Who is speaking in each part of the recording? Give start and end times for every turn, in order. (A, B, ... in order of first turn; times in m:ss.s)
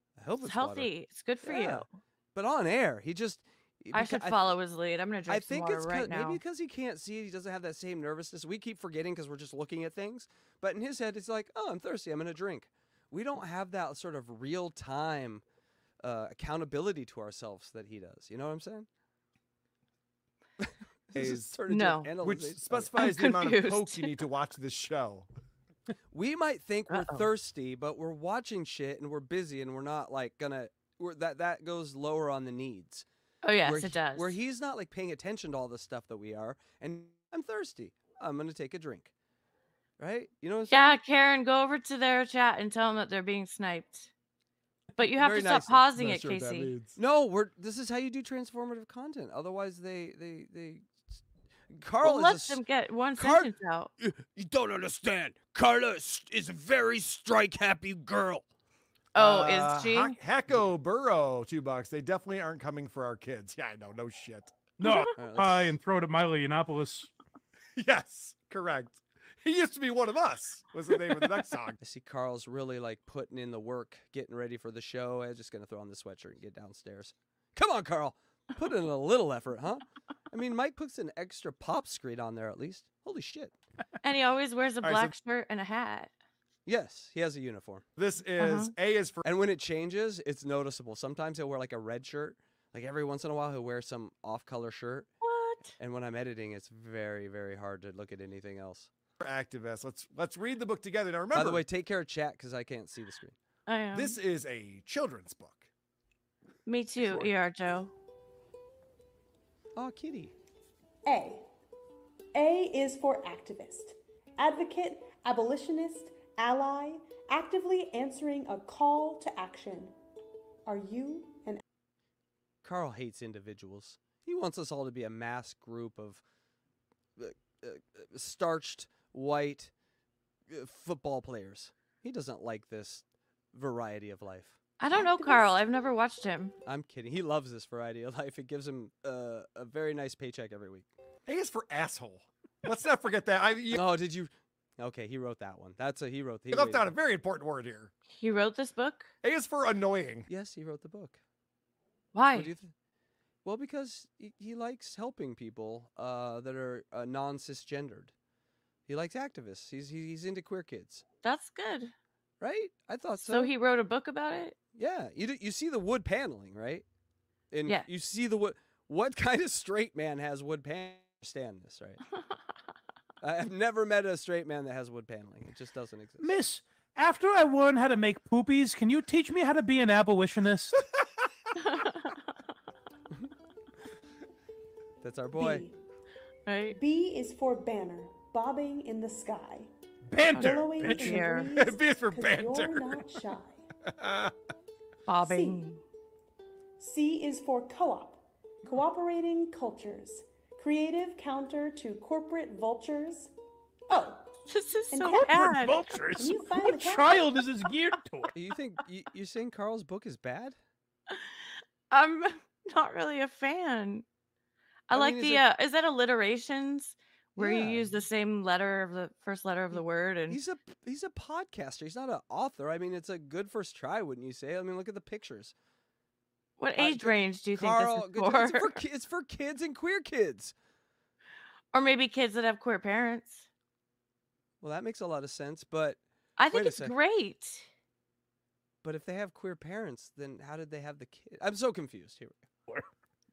0:00.2-0:04.4 A
0:00.4-0:01.9 B
0:03.9-0:06.4 B
0:05.3-0:15.4 A
0:16.0-0:18.9 A
0:20.6-0:23.2 A
0:21.2-0:21.5 C
0:21.7-0:22.1 B
0:22.2-0:25.3 C
0:23.0-0:24.2 B
0:26.1-0:33.1 A
0:26.9-0:27.3 B
0:33.4-0:34.4 B
0:33.6-0:39.1 A
0:40.0-0:41.0 A
0:40.7-0:44.1 B
0:45.0-0:46.7 B
0:45.1-0:46.4 A
0:46.0-0:47.0 C
0:47.0-0:50.9 A
0:51.7-0:52.6 A
0:52.0-0:53.9 B
0:53.2-0:58.4 A
0:59.2-1:00.2 B
0:59.2-1:04.8 C
1:04.8-1:07.1 D
1:05.2-1:05.7 A
1:07.8-1:11.8 C
1:11.8-1:23.6 A
1:24.0-1:26.1 B
1:24.8-1:25.1 C
1:26.7-1:27.9 A
1:28.0-1:29.2 C
1:28.4-1:28.7 B
1:29.2-1:35.1 A
1:35.2-1:35.8 B
1:35.8-1:38.9 A
1:39.2-1:41.6 C
1:41.3-1:43.4 A
1:43.7-1:44.2 B
1:43.9-1:45.7 C
1:46.7-1:47.9 B
1:47.0-1:47.3 C
1:49.8-1:50.4 A
1:51.1-1:51.5 E
1:52.4-2:00.0 E
2:00.7-2:01.6 E
2:02.6-2:06.2 A
2:07.2-2:09.7 A
2:10.5-2:14.6 A
2:14.8-2:16.5 B
2:14.9-2:15.5 E
2:16.6-2:20.9 A
2:21.3-2:23.8 C
2:23.7-2:26.9 A
2:26.5-2:27.9 C
2:28.1-2:29.1 B
2:29.2-2:30.3 C
2:30.3-2:31.2 A
2:32.1-2:32.5 B
2:32.3-2:32.7 A
2:33.4-2:38.1 A
2:38.9-2:41.0 A
2:41.2-2:41.9 B
2:42.4-2:43.5 A
2:43.2-2:44.6 B
2:44.8-2:46.8 A
2:47.5-2:52.0 A
2:53.2-2:56.4 A
2:56.2-3:00.8 D
3:01.6-3:02.1 B
3:05.0-3:05.6 A
3:05.4-3:05.8 E
3:06.5-3:06.8 B
3:06.8-3:09.7 E
3:10.1-3:11.2 D
3:10.2-3:11.0 C
3:10.4-3:11.5 B
3:10.4-3:13.7 E
3:11.5-3:13.1 C
3:13.9-3:14.3 C
3:15.1-3:15.8 B
3:15.2-3:15.6 E
3:16.8-3:23.3 E
3:23.9-3:24.3 E
3:24.5-3:25.8 B
3:24.9-3:25.6 E
3:25.4-3:28.4 D
3:26.2-3:27.3 E
3:28.3-3:30.6 A
3:31.1-3:34.0 B
3:34.9-3:40.4 B
3:34.9-3:35.4 A
3:37.4-3:37.9 A
3:39.7-3:45.6 A
3:46.6-3:48.8 B
3:46.8-3:50.6 A
3:51.7-3:53.4 B
3:54.6-3:56.9 A
3:56.4-3:57.7 B
3:58.8-4:02.5 A